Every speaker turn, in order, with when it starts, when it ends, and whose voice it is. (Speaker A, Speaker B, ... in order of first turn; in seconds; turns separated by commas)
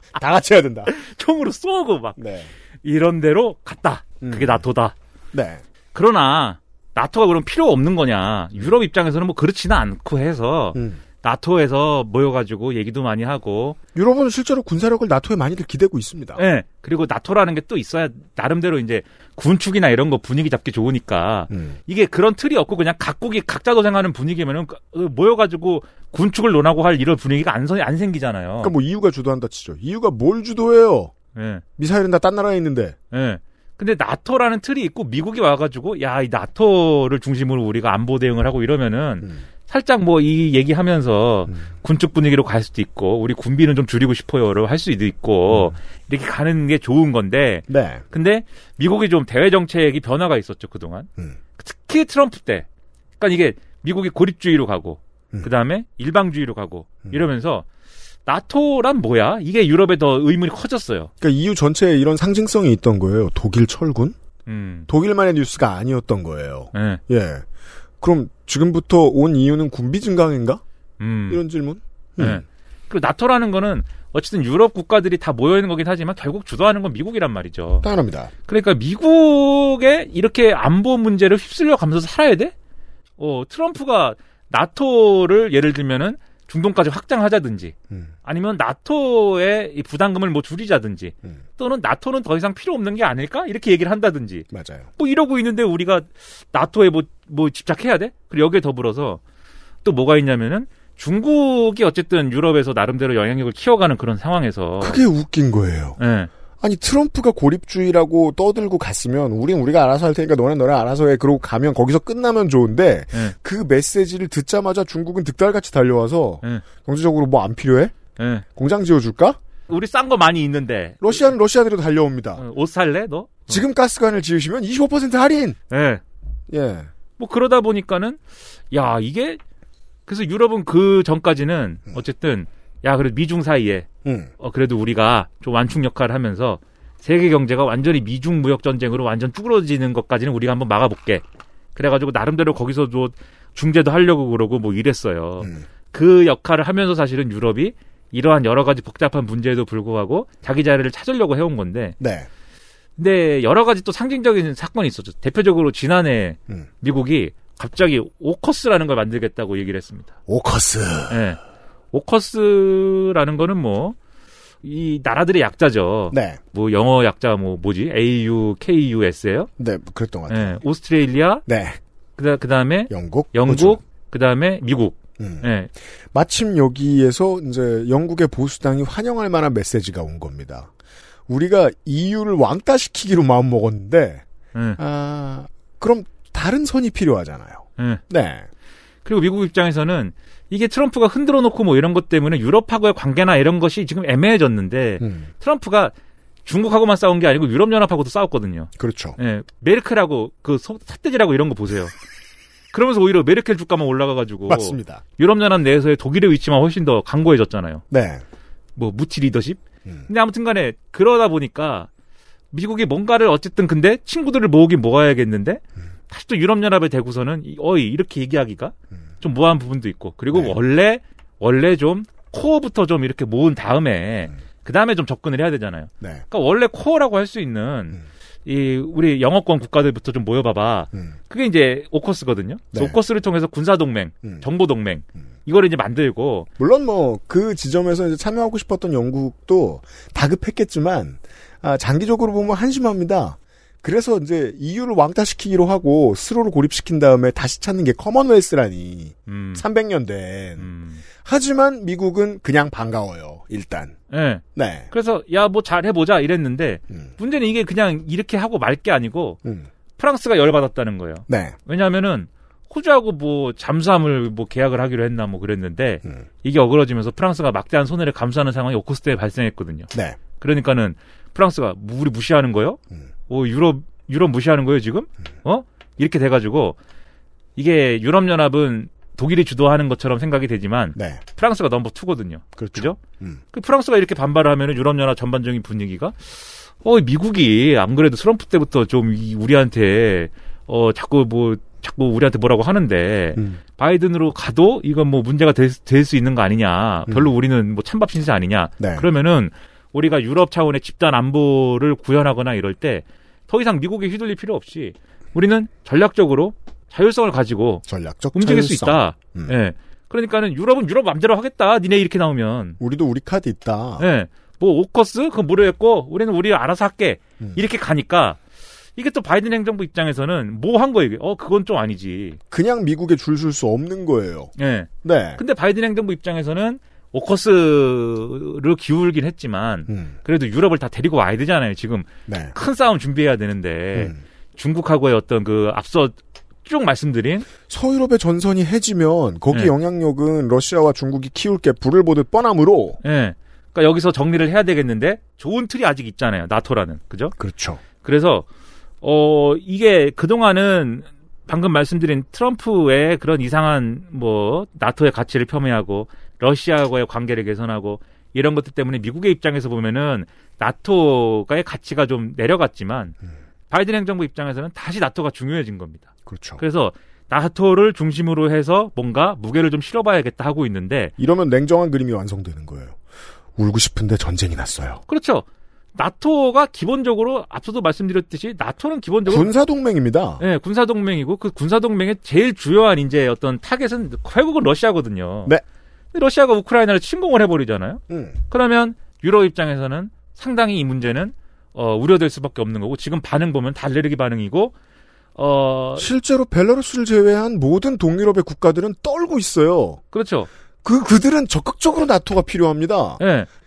Speaker A: 0.1-0.9, Speaker B: 0.9-2.2, Speaker A: 2.2-2.5, Speaker B: 2.8-5.0, Speaker A: 4.2-4.6, Speaker A: 5.3-5.6, Speaker B: 5.9-13.8, Speaker A: 10.8-11.0, Speaker A: 13.9-16.4, Speaker B: 16.4-28.8, Speaker A: 21.5-21.8, Speaker A: 28.6-31.1, Speaker B: 31.4-31.6, Speaker A: 31.8-33.0, Speaker B: 33.1-52.7, Speaker A: 47.7-48.0, Speaker B: 53.2-57.7, Speaker B: 58.3-61.1, Speaker A: 61.2-64.2, Speaker B: 64.5-64.9, Speaker A: 64.9-67.5, Speaker B: 66.7-67.0, Speaker A: 68.0-70.6, Speaker B: 71.0-71.4, Speaker A: 71.3-72.4, Speaker B: 72.2-77.9, Speaker A: 77.8-78.3, Speaker B: 78.5-82.5, Speaker B: 83.2-99.2, Speaker A: 94.5-94.9, Speaker B: 99.8-105.0, Speaker A: 104.8-106.0, Speaker B: 106.0-106.3, Speaker A: 106.6-118.0, Speaker B: 118.2-118.5, Speaker A: 118.5-119.4, Speaker B: 119.7-121.3, Speaker A: 121.0-122.4, Speaker B: 122.4-123.6, Speaker A: 123.5-125.6, Speaker B: 125.7-126.0, Speaker A: 126.5-126.9, Speaker B: 127.2-128.2, Speaker B: 128.7-129.4, Speaker B: 130.1-133.9, Speaker A: 134.1-134.3, Speaker B: 134.4-141.2, Speaker B: 141.8-152.0, Speaker A: 152.0-152.3, Speaker B: 153.0-160.1, Speaker A: 160.3-161.2, Speaker B: 161.1-161.4, Speaker B: 161.9-164.0, Speaker B: 164.6-169.5, Speaker A: 166.1-166.4, Speaker A: 169.6-170.6, Speaker B: 170.3-171.4, Speaker A: 171.5-171.8, Speaker B: 172.2-175.7, Speaker A: 172.9-173.8, Speaker A: 175.2-175.4, Speaker A: 176.1-180.7, Speaker A: 181.3-184.2, Speaker A: 184.8-188.5, Speaker B: 189.1-195.9, Speaker A: 195.0-195.3, Speaker B: 196.4-201.9, Speaker A: 198.8-199.2, Speaker B: 202.7-207.8, Speaker A: 204.5-205.0, Speaker A: 207.9-208.2, Speaker B: 208.8-211.9, Speaker B: 212.5-236.5, Speaker A: 236.6-254.0, Speaker B: 249.3-249.6, Speaker B: 250.6-251.0, Speaker B: 254.1-259.4, Speaker A: 254.6-254.9, Speaker B: 260.0-276.8, Speaker A: 261.3-261.6, Speaker A: 269.9-270.2, Speaker B: 277.6-283.0, Speaker A: 281.0-281.2, Speaker A: 282.6-283.4, Speaker B: 283.5-312.8, Speaker A: 298.8-299.1, Speaker A: 307.9-309.6, Speaker A: 312.8-314.0, Speaker B: 314.0-318.4, Speaker B: 319.0-322.4, Speaker A: 322.5-325.4, Speaker B: 324.6-337.5, Speaker A: 329.9-330.1, Speaker A: 332.3-332.6, Speaker A: 333.9-334.2, Speaker A: 337.7-343.0, Speaker B: 343.0-347.4, Speaker A: 347.4-347.8, Speaker B: 348.0-348.5, Speaker B: 349.0-363.1, Speaker B: 363.7-371.1, Speaker A: 366.3-366.6, Speaker A: 371.2-373.0, Speaker A: 373.6-375.0, Speaker B: 375.1-375.4, Speaker B: 376.0-379.5, Speaker A: 379.3-380.4, Speaker B: 380.4-385.5, Speaker B: 386.1-394.7, Speaker A: 388.1-388.4, Speaker B: 395.4-396.1, Speaker A: 396.0-400.0, Speaker B: 400.1-400.5, Speaker A: 400.8-403.2, Speaker B: 403.2-403.5